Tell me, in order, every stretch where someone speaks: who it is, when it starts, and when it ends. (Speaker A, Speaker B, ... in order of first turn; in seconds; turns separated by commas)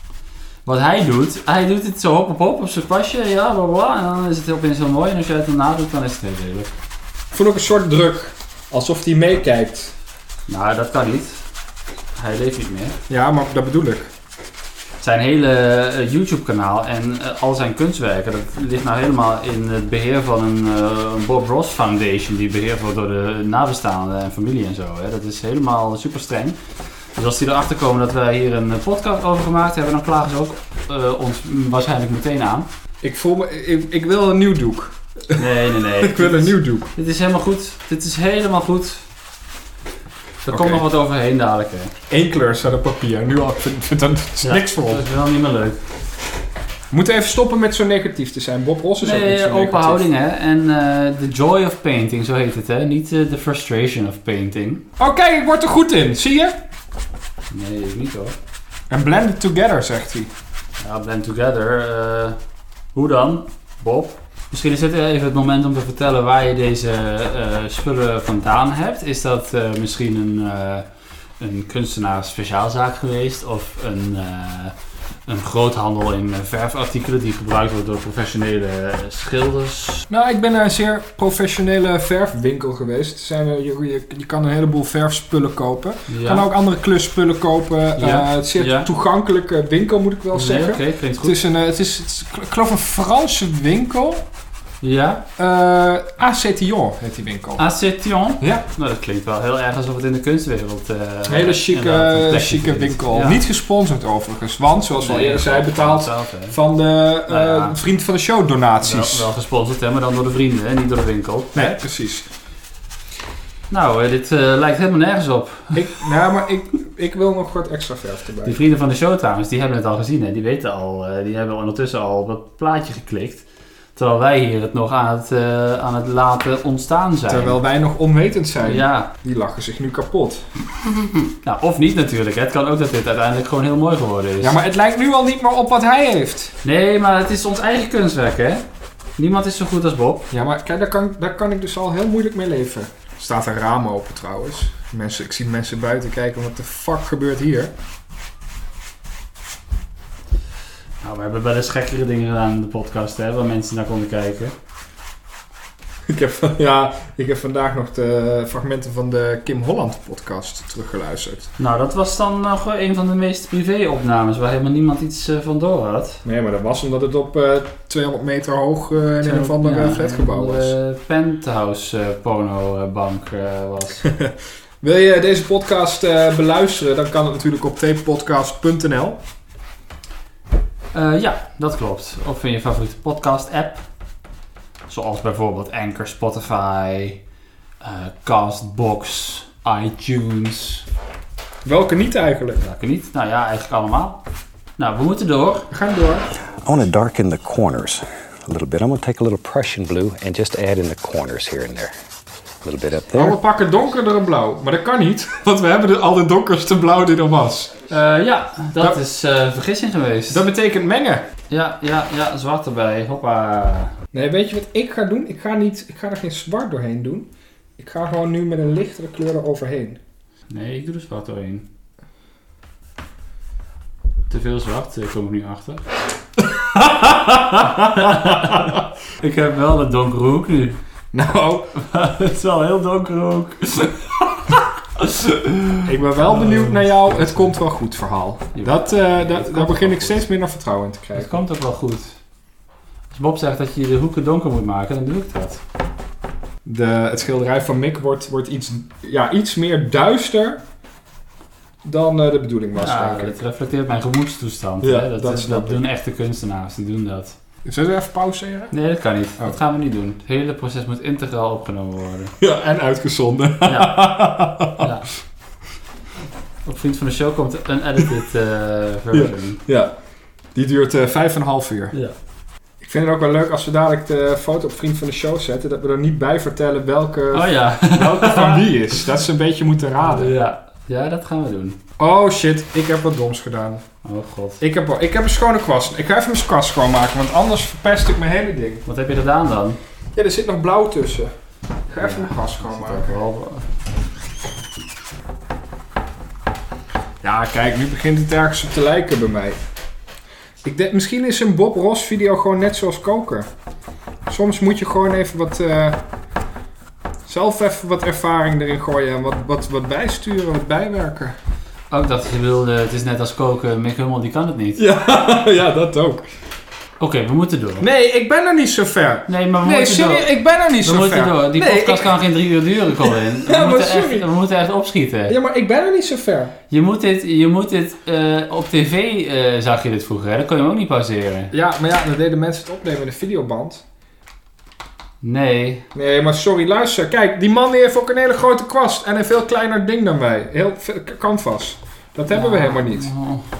Speaker A: 0.6-6.7, Speaker B: 7.3-9.9, Speaker A: 10.5-11.4, Speaker A: 12.2-13.0, Speaker B: 13.1-14.1, Speaker A: 15.0-26.6, Speaker A: 27.1-32.7, Speaker B: 33.0-35.4, Speaker A: 35.4-39.0, Speaker B: 36.0-36.9, Speaker A: 40.4-41.9, Speaker B: 40.5-40.8, Speaker B: 42.1-45.0, Speaker A: 44.4-45.8, Speaker B: 46.9-50.0, Speaker A: 49.0-54.8, Speaker B: 55.0-56.6, Speaker A: 57.5-58.4, Speaker B: 58.9-60.3, Speaker A: 60.8-62.4, Speaker A: 62.9-70.8, Speaker A: 71.4-74.7, Speaker A: 75.2-80.0, Speaker B: 80.1-94.2, Speaker A: 86.1-86.5, Speaker A: 88.0-88.9, Speaker A: 90.3-91.4, Speaker A: 94.8-95.2, Speaker B: 95.4-97.6, Speaker A: 97.6-103.4, Speaker B: 101.2-109.3, Speaker A: 105.0-106.5, Speaker A: 107.3-107.8, Speaker A: 108.8-111.8, Speaker B: 111.5-112.3, Speaker A: 113.7-116.0, Speaker B: 115.7-118.6, Speaker A: 118.4-127.6, Speaker B: 127.3-130.4, Speaker A: 128.6-129.1, Speaker A: 131.0-134.5, Speaker B: 134.4-136.5, Speaker A: 136.6-138.6, Speaker A: 139.2-140.3, Speaker B: 140.3-147.7, Speaker A: 151.0-154.5, Speaker B: 156.1-161.5, Speaker A: 161.6-166.2, Speaker B: 166.2-170.7, Speaker A: 169.2-174.1, Speaker B: 174.0-179.2, Speaker A: 180.9-183.8, Speaker A: 184.9-187.2, Speaker A: 187.8-190.8, Speaker B: 191.6-192.6, Speaker A: 192.6-194.2, Speaker A: 194.8-195.7, Speaker B: 195.7-196.2, Speaker C: 196.6-201.9, Speaker C: 202.6-203.4, Speaker B: 203.1-207.7, Speaker A: 207.9-210.4, Speaker B: 210.3-211.2, Speaker A: 211.5-213.9, Speaker B: 214.1-220.0, Speaker A: 220.5-221.7, Speaker A: 224.3-225.8, Speaker B: 226.4-228.8, Speaker A: 227.8-230.8, Speaker B: 231.1-231.7, Speaker A: 231.8-236.8, Speaker B: 235.8-241.3, Speaker A: 238.5-240.2, Speaker A: 241.1-242.2, Speaker A: 243.1-245.6, Speaker B: 246.6-250.6, Speaker B: 251.8-253.3, Speaker A: 252.8-257.3, Speaker B: 254.8-255.8, Speaker B: 257.6-258.7, Speaker A: 258.7-262.3, Speaker B: 262.4-264.9, Speaker A: 263.6-264.1, Speaker A: 264.8-265.1, Speaker A: 266.6-269.6, Speaker B: 269.1-269.9, Speaker B: 270.5-271.9, Speaker B: 272.8-280.3, Speaker A: 277.3-278.7, Speaker A: 280.0-281.8, Speaker B: 282.0-283.8, Speaker A: 284.0-284.6, Speaker B: 284.6-288.8, Speaker A: 288.9-289.8, Speaker B: 290.1-291.3, Speaker B: 291.9-293.2, Speaker A: 292.0-293.7, Speaker B: 297.2-299.6, Speaker B: 300.6-303.5, Speaker B: 304.3-306.0, Speaker B: 307.3-311.3, Speaker A: 311.9-314.8, Speaker B: 314.8-316.2, Speaker A: 317.0-317.8, Speaker B: 317.8-322.1, Speaker A: 319.3-320.3, Speaker A: 320.8-325.3, Speaker B: 323.0-324.3, Speaker B: 325.3-326.5, Speaker A: 326.7-331.5, Speaker B: 331.5-333.8, Speaker A: 335.2-335.9, Speaker B: 335.9-343.1, Speaker A: 342.3-343.4